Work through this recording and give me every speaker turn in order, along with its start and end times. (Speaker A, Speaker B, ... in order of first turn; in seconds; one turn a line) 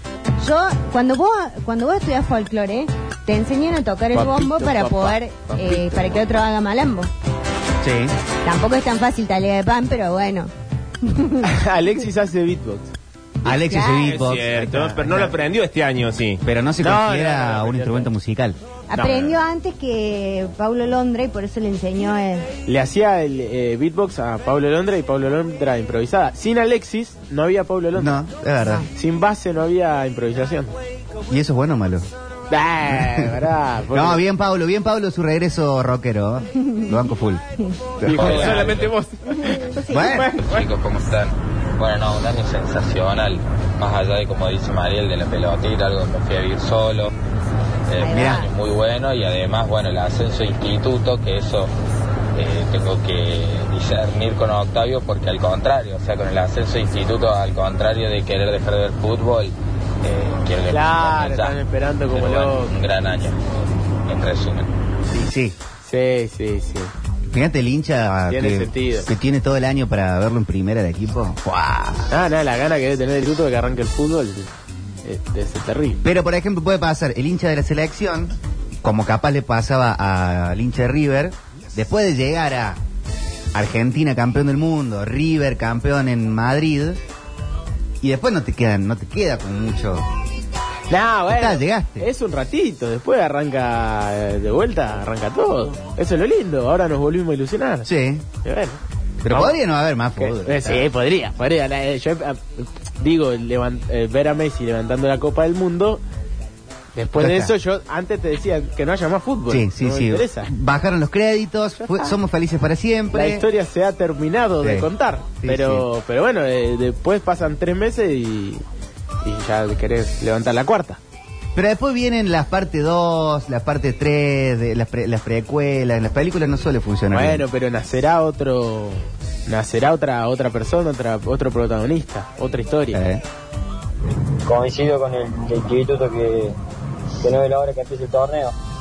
Speaker A: 0.4-7.1
Speaker B: 4.1-6.2
Speaker C: 7.8-8.1
Speaker A: 8.4-10.5
Speaker A: 11.0-11.4
Speaker B: 11.4-12.9
Speaker C: 13.4-15.3
Speaker A: 13.5-14.1
Speaker D: 13.8-16.4
Speaker C: 16.4-18.6
Speaker B: 16.8-18.1
Speaker A: 18.9-22.5
Speaker D: 18.9-19.4
Speaker B: 22.6-28.2
Speaker C: 27.9-28.9
Speaker B: 28.9-30.7
Speaker C: 31.3-32.1
Speaker B: 32.5-34.2
Speaker C: 32.9-33.4
Speaker C: 33.9-37.4
Speaker C: 38.0-38.6
Speaker B: 38.0-39.0
Speaker D: 38.2-39.1
Speaker A: 39.4-40.2
Speaker C: 39.9-40.3
Speaker E: 40.4-47.1
Speaker E: 47.9-51.7
Speaker A: 48.0-48.5
Speaker C: 48.0-48.5
Speaker E: 52.4-61.6
Speaker B: 60.7-62.7
Speaker E: 62.1-63.4
Speaker E: 64.1-64.7
Speaker C: 65.1-65.5
Speaker B: 65.8-66.9
Speaker C: 67.3-72.1
Speaker B: 68.3-69.1
Speaker B: 72.1-74.5
Speaker B: 75.0-76.0
Speaker C: 76.0-82.8
Speaker C: 83.5-87.0
Speaker C: 88.0-90.0
Speaker B: 90.9-97.9
Speaker C: 91.3-92.1
Speaker C: 97.8-98.2
Speaker B: 98.4-98.8
Speaker C: 99.2-100.9
Speaker B: 99.3-99.5
Speaker B: 100.2-106.0
Speaker B: 106.9-110.5
Speaker C: 107.1-107.5
Speaker C: 109.5-113.4
Speaker B: 113.1-118.6
Speaker C: 114.6-114.9
Speaker C: 115.4-115.8
Speaker B: 119.2-121.0
Speaker C: 121.5-127.4
Speaker B: 127.1-133.0
Speaker C: 132.9-133.2
Speaker F: 134.4-136.6
Speaker F: 137.2-138.5